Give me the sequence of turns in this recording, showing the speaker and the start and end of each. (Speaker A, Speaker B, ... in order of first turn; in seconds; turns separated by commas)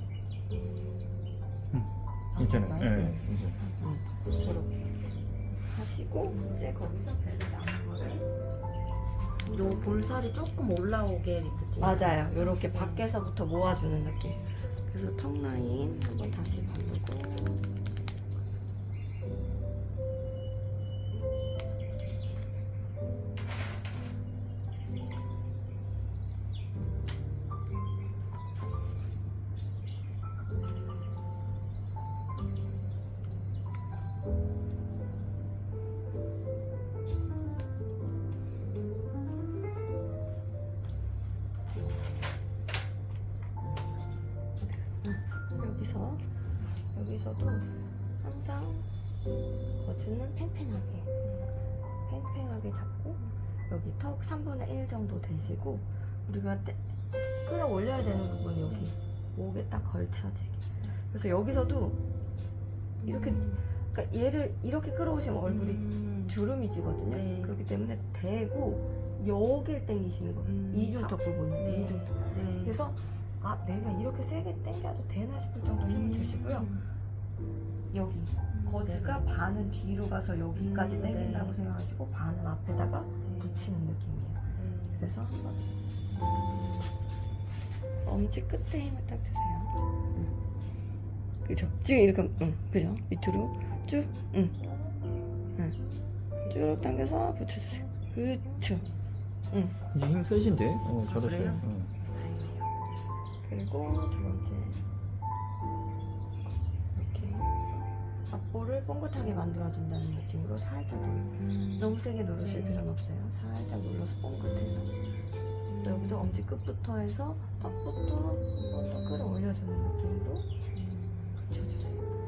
Speaker A: 1.7-3.6, Speaker B: 2.3-3.7, Speaker C: 3.8-4.7, Speaker C: 5.7-8.3, Speaker B: 9.5-13.0, Speaker C: 9.5-9.9, Speaker C: 11.8-17.7, Speaker B: 44.6-44.9, Speaker C: 45.0-46.2, Speaker C: 46.9-47.7, Speaker C: 48.2-48.9, Speaker C: 49.8-51.1, Speaker B: 51.2-51.5, Speaker C: 52.1-56.8, Speaker C: 57.4-62.0, Speaker B: 58.7-58.9, Speaker C: 63.0-76.7, Speaker B: 63.1-63.6, Speaker B: 65.5-66.4, Speaker B: 67.1-67.6, Speaker B: 70.4-72.8, Speaker B: 75.9-76.8, Speaker C: 77.9-84.4, Speaker B: 78.5-79.3, Speaker B: 80.5-81.6, Speaker B: 83.2-83.7, Speaker B: 84.5-85.1, Speaker C: 85.0-85.7, Speaker C: 88.0-90.3, Speaker C: 91.5-94.6, Speaker B: 96.4-97.2, Speaker C: 96.5-98.8, Speaker B: 97.9-98.9, Speaker C: 99.5-99.8, Speaker A: 99.9-101.9, Speaker B: 101.0-102.7, Speaker C: 103.4-104.8, Speaker C: 107.0-114.9, Speaker B: 111.4-112.8, Speaker B: 115.7-116.4, Speaker C: 115.8-120.5, Speaker B: 120.8-122.0